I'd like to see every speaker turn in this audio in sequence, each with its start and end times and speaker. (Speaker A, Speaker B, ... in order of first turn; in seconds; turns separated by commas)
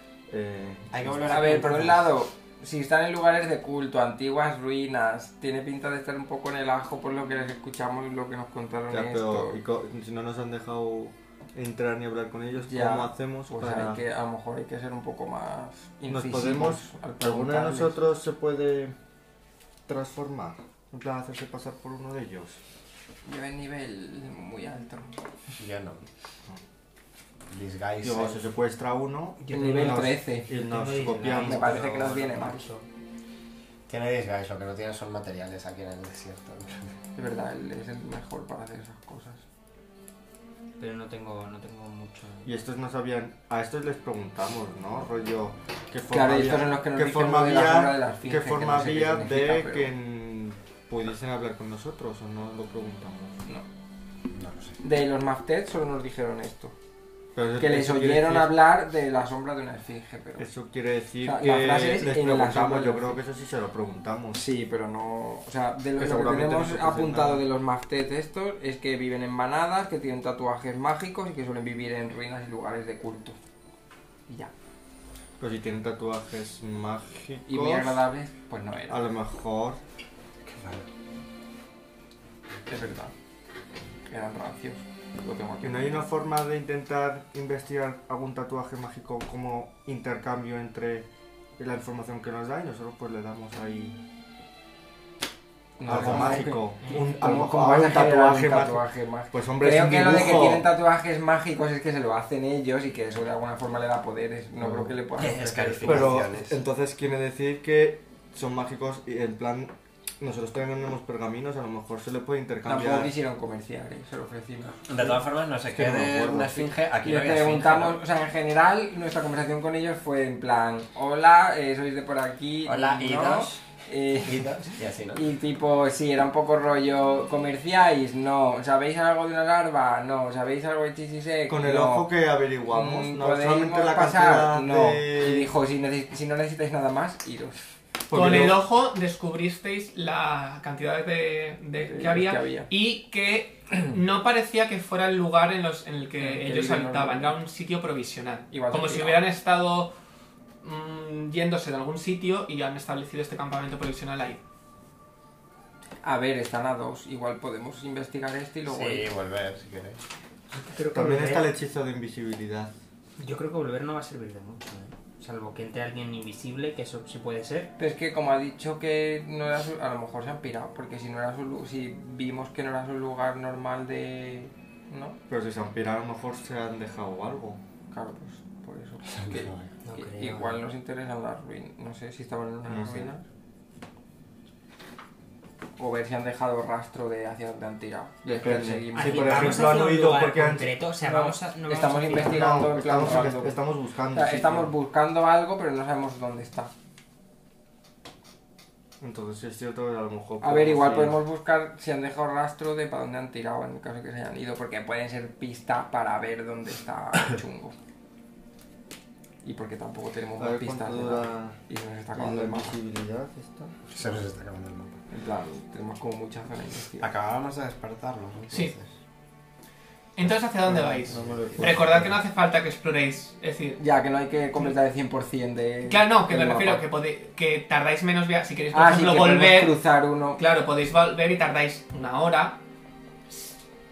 Speaker A: 0.3-1.7, Speaker B: 0.9-2.1, Speaker C: 1.2-9.6, Speaker A: 8.9-14.0, Speaker C: 12.6-18.0, Speaker A: 16.1-18.9, Speaker A: 19.9-22.6, Speaker C: 23.2-25.1, Speaker B: 25.6-26.0, Speaker B: 27.5-28.4, Speaker A: 28.0-32.5, Speaker C: 29.5-30.5, Speaker D: 30.5-31.8, Speaker C: 31.4-32.6, Speaker D: 32.4-32.9, Speaker B: 33.9-36.9, Speaker C: 37.2-39.4, Speaker D: 40.8-42.5, Speaker A: 42.4-53.4, Speaker C: 46.1-49.9, Speaker B: 54.3-54.8, Speaker C: 54.8-56.7, Speaker A: 57.4-58.5, Speaker C: 57.6-60.5, Speaker A: 60.4-64.4, Speaker C: 61.2-63.2, Speaker C: 64.3-73.4, Speaker A: 66.0-67.4, Speaker A: 75.4-78.0, Speaker C: 77.5-79.1, Speaker A: 78.9-79.8, Speaker B: 80.4-80.9, Speaker C: 82.7-83.1, Speaker C: 84.1-86.1, Speaker A: 85.6-91.1, Speaker A: 91.6-94.0, Speaker C: 95.8-106.1, Speaker A: 95.8-98.8, Speaker D: 96.8-97.1, Speaker A: 99.3-100.7, Speaker A: 104.6-104.9, Speaker B: 105.2-106.6, Speaker D: 105.2-106.0, Speaker A: 105.8-113.1, Speaker C: 112.7-114.8, Speaker B: 114.8-118.0, Speaker A: 115.7-116.7, Speaker C: 117.0-124.5, Speaker B: 122.7-123.6, Speaker B: 124.2-125.3, Speaker C: 125.2-132.1, Speaker A: 131.5-135.5, Speaker C: 132.7-137.6, Speaker A: 138.1-138.6, Speaker E: 138.1-149.9, Speaker C: 141.9-142.7, Speaker C: 146.2-147.3, Speaker C: 148.5-149.2, Speaker E: 150.6-154.4, Speaker C: 156.0-159.1, Speaker B: 158.7-160.0, Speaker D: 160.5-161.5, Speaker A: 160.9-162.7, Speaker D: 163.2-167.7, Speaker C: 167.8-175.2, Speaker A: 175.3-177.6, Speaker C: 177.9-183.2, Speaker B: 179.1-179.7, Speaker D: 179.8-180.6, Speaker A: 182.7-183.1, Speaker C: 185.8-189.8, Speaker A: 188.2-190.8, Speaker D: 188.4-192.6, Speaker C: 191.0-196.7, Speaker A: 192.1-194.7, Speaker A: 199.0-201.2, Speaker C: 200.4-207.7, Speaker C: 209.4-212.8, Speaker A: 210.4-211.6, Speaker A: 212.1-213.7, Speaker B: 213.9-215.0, Speaker C: 215.1-217.1, Speaker B: 217.0-218.9, Speaker E: 220.2-223.8, Speaker A: 220.7-222.1, Speaker B: 221.1-222.1, Speaker C: 223.8-226.8, Speaker E: 225.9-229.8, Speaker C: 228.7-230.4, Speaker E: 230.4-232.6